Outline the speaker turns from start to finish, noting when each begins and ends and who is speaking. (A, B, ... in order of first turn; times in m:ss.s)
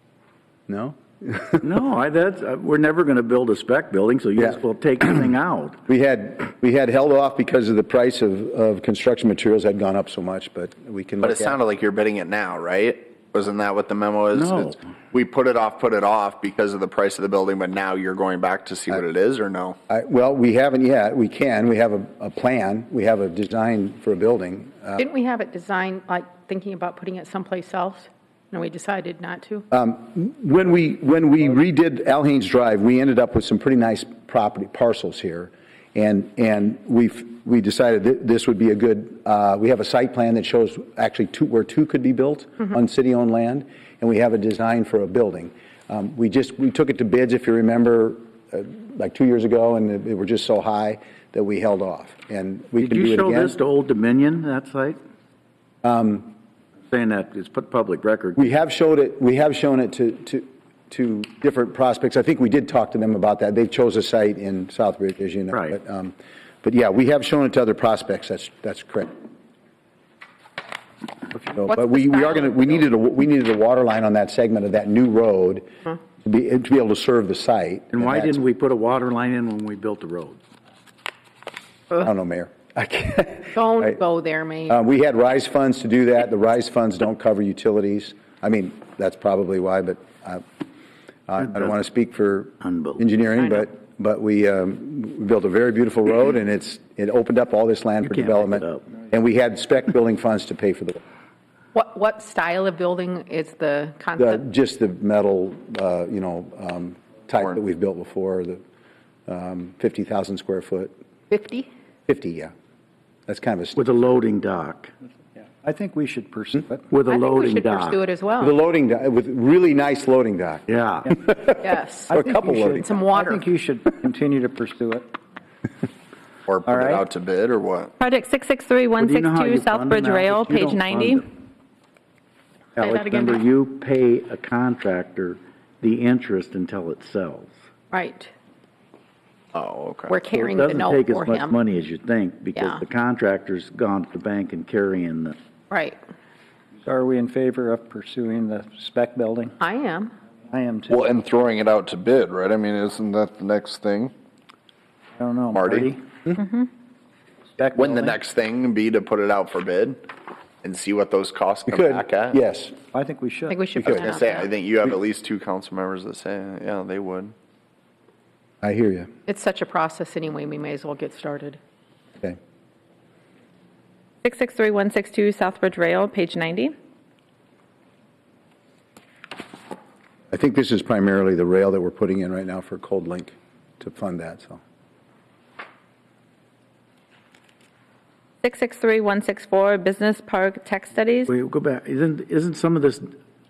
0:00.7-0:01.7 A
0:01.6-0:05.8 B
0:05.9-0:11.6 A
0:11.2-0:19.8 C
0:14.3-0:14.8 B
0:19.9-0:25.0 A
0:25.0-0:29.7 D
0:29.7-0:53.6 A
0:52.8-0:55.0 B
0:55.8-0:56.4 A
0:56.9-0:58.5 B
0:58.4-1:09.1 A
1:11.4-1:15.7 A
1:11.8-1:12.5 D
1:16.2-1:18.4 A
1:17.9-1:20.4 B
1:21.9-1:23.9 A
1:23.6-1:24.8 D
1:24.7-1:30.4 A
1:31.3-1:41.0 A
1:31.4-1:31.8 B
1:32.6-1:33.1 B
1:38.0-1:38.9 B
1:41.7-1:44.4 D
1:44.2-1:48.6 A
1:49.3-1:50.9 A
1:51.3-1:51.7 D
1:52.1-1:52.5 A
1:53.3-1:53.8 A
1:53.8-1:54.9 B
1:55.6-1:57.0 E
1:56.9-1:58.0 B
1:57.1-1:58.5 D
1:58.4-2:02.8 A
2:00.7-2:01.0 B
2:01.6-2:03.4 D
2:02.1-2:05.1 E
2:06.5-2:07.9 C
2:06.7-2:07.1 E
2:08.0-2:11.2 F
2:09.0-2:11.2 B
2:12.8-2:17.6 B
2:17.9-2:18.3 D
2:19.5-2:20.2 C
2:20.1-2:21.6 D
2:20.3-2:25.4 B
2:25.7-2:26.0 D
2:26.9-2:29.6 E
2:29.6-2:30.1 D
2:30.5-2:31.1 E
2:30.9-2:34.1 C
2:35.2-2:36.0 E
2:35.5-2:36.0 C
2:36.4-2:36.7 D
2:37.6-2:38.2 E
2:37.7-2:40.0 C
2:40.6-2:42.4 C
2:41.7-2:42.8 A
2:42.9-2:43.7 E
2:43.5-2:44.5 D
2:43.8-2:44.1 A
2:43.8-2:47.3 C
2:48.6-2:49.1 A
2:49.3-2:51.6 D
2:54.2-2:56.7 F
3:00.3-3:04.6 A
3:08.4-3:11.3 F
3:11.3-3:13.1 B